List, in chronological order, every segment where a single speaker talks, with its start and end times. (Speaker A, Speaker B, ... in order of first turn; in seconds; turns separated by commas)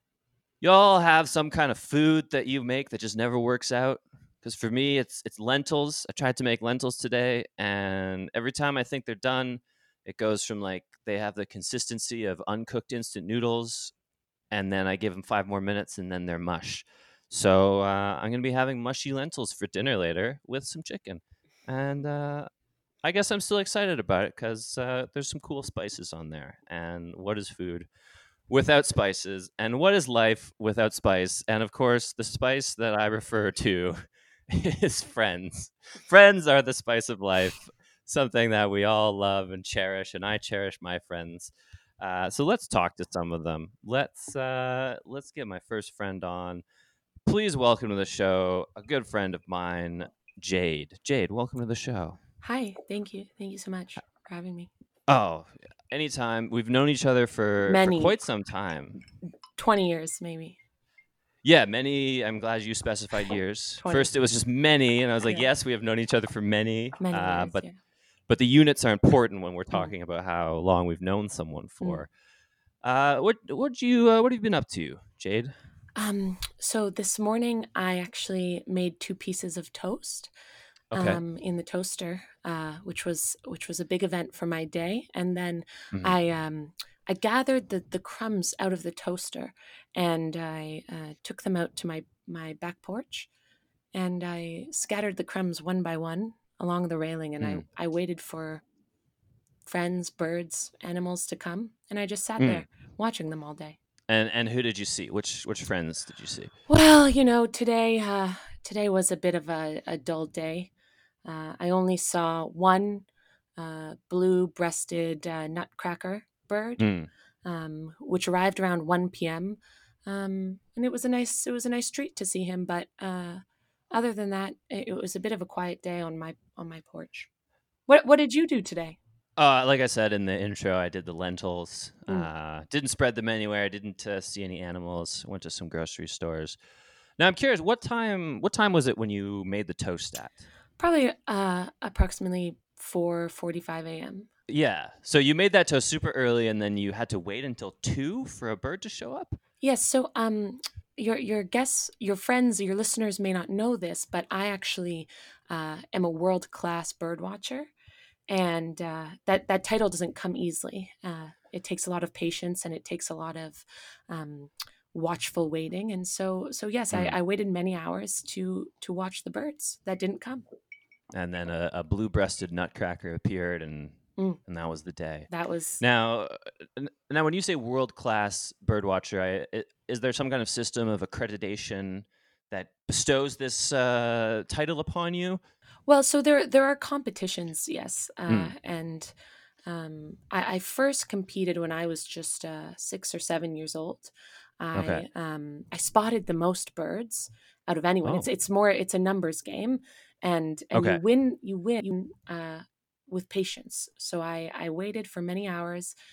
Speaker A: 0.6-13.9, Speaker A: 14.5-22.5, Speaker A: 23.0-27.9, Speaker A: 28.5-34.0, Speaker A: 34.5-46.6, Speaker A: 47.3-52.2, Speaker B: 52.4-54.7, Speaker A: 55.1-59.0, Speaker B: 57.7-58.1, Speaker B: 59.5-60.6, Speaker A: 61.4-67.7, Speaker B: 63.8-64.1, Speaker B: 67.0-67.7, Speaker A: 68.3-72.1, Speaker A: 72.8-75.5, Speaker B: 76.0-80.3, Speaker A: 80.9-81.2, Speaker B: 80.9-93.3, Speaker B: 93.9-98.6, Speaker B: 99.7-103.8, Speaker A: 102.4-102.7, Speaker A: 104.1-106.5, Speaker B: 106.7-110.7, Speaker B: 111.2-113.0, Speaker B: 113.6-116.9, Speaker A: 116.8-117.1, Speaker B: 117.5-127.3, Speaker B: 127.9-129.0, Speaker A: 129.4-136.6, Speaker A: 137.2-140.4, Speaker B: 140.8-144.3, Speaker A: 144.5-149.4, Speaker B: 149.6-157.7, Speaker B: 158.3-170.4, Speaker A: 171.1-175.3, Speaker B: 175.3-175.8, Speaker A: 175.8-185.4, Speaker B: 185.9-189.1, Speaker A: 188.3-188.5, Speaker B: 189.7-205.9, Speaker A: 194.7-195.0, Speaker A: 200.7-201.0